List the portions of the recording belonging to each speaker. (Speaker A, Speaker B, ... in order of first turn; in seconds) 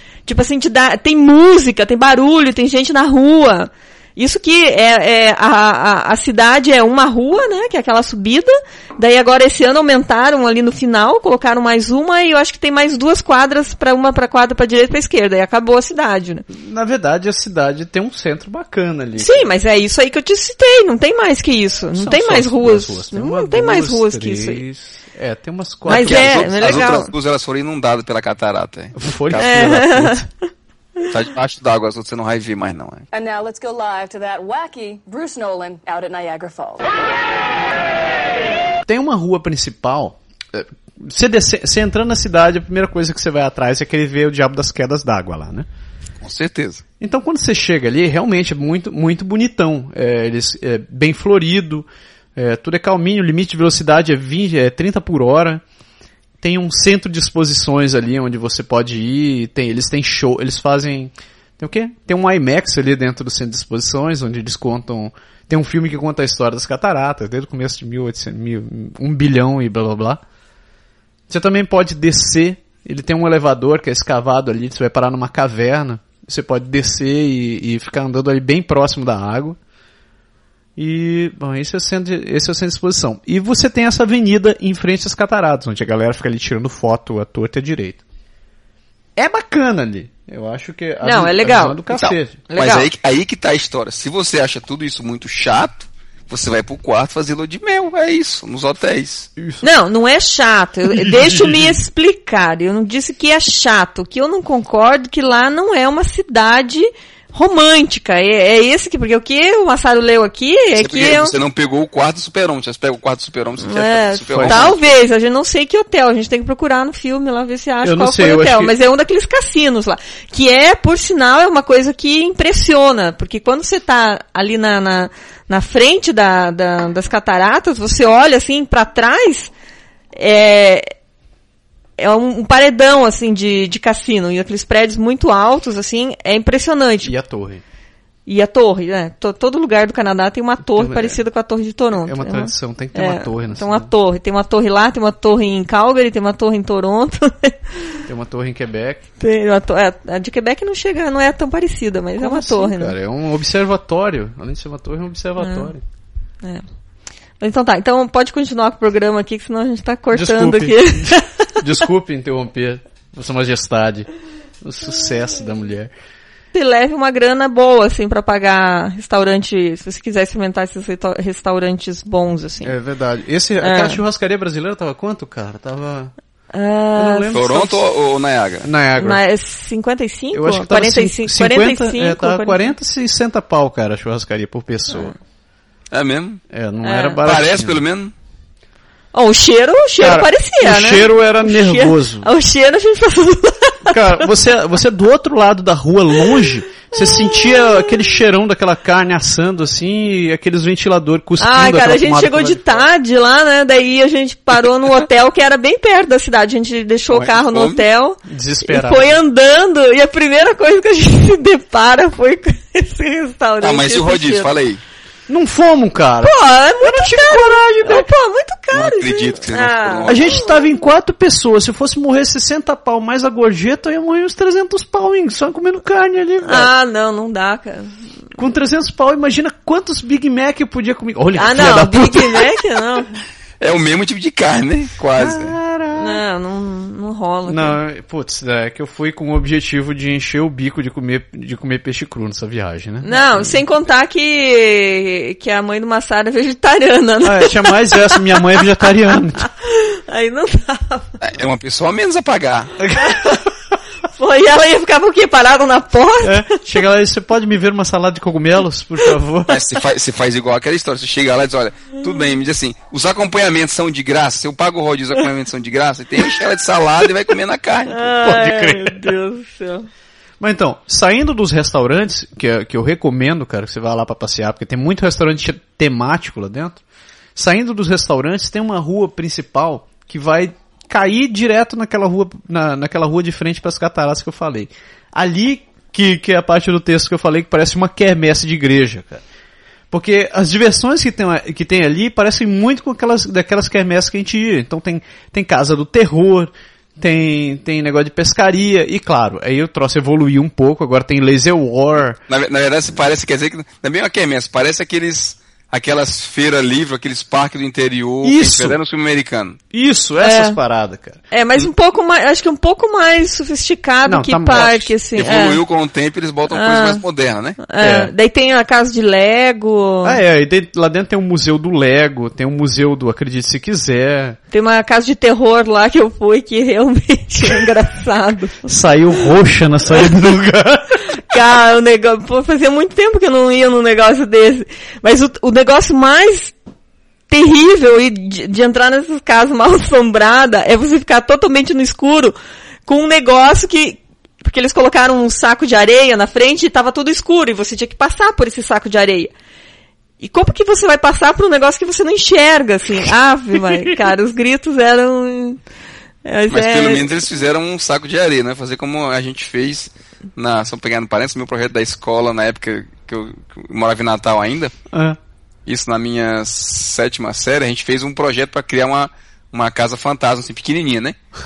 Speaker A: 0.3-16.4, 19.2-24.6, 25.9-27.1, 29.4-30.2, 91.0-91.8, 92.5-92.9, 99.6-111.3, 113.6-129.5, 130.2-130.9, 132.0-137.1, 138.3-148.0, 149.2-152.9, 155.4-155.7, 157.4-161.6, 166.5-172.8, 173.6-174.0, 176.5-177.4, 179.0-182.7, 186.8-187.2, 189.1-194.3, 196.9-198.0, 201.4-214.5, 216.2-220.5, 226.4-227.9, 231.4-233.1, 235.9-237.8, 243.0-251.2, 253.0-253.4, 254.1-256.6, 267.9-269.9, 310.2-310.6, 311.3-315.6, 316.5-317.0, 317.6-320.2, 324.5-328.7, 331.2-336.5, 337.3-342.4, 342.9-349.3, 350.2-355.6, 356.2-357.1
Speaker B: 16.5-19.5, 21.9-26.9, 29.0-30.3, 38.9-45.7, 47.0-55.6, 56.4-70.2, 71.3-79.6, 80.8-88.0, 89.2-92.4, 99.4-99.6, 100.9-101.8, 114.3-114.7, 117.8-118.7, 137.0-137.6, 140.6-141.2, 142.0-143.9, 148.1-149.0, 152.2-155.8, 160.1-164.1, 164.6-165.9, 172.6-176.1, 176.9-177.8, 178.6-179.2, 180.3-185.2, 186.5-187.8, 190.0-192.3, 193.9-202.9, 208.2-209.2, 215.3-218.1, 220.1-226.7, 228.4-232.6, 235.2-236.2, 237.5-243.6, 247.2-249.5, 252.8-253.5, 256.2-259.6, 268.2-269.1, 270.4-276.8, 277.4-289.2, 289.9-302.2, 308.2-308.8, 309.7-311.2, 314.1-314.9, 317.8-318.1, 320.0-324.4, 328.6-331.1, 364.9-365.2
Speaker C: 25.9-29.6, 31.1-33.1, 46.2-46.8, 91.9-99.3, 110.8-114.8, 177.3-178.7, 185.9-186.4, 187.2-188.1, 207.1-207.8, 213.6-214.8, 218.7-220.4, 233.6-235.6, 251.2-252.7, 259.5-268.0, 302.3-309.6, 315.2-317.6, 356.5-364.7, 365.7-371.2
Speaker D: 33.1-36.9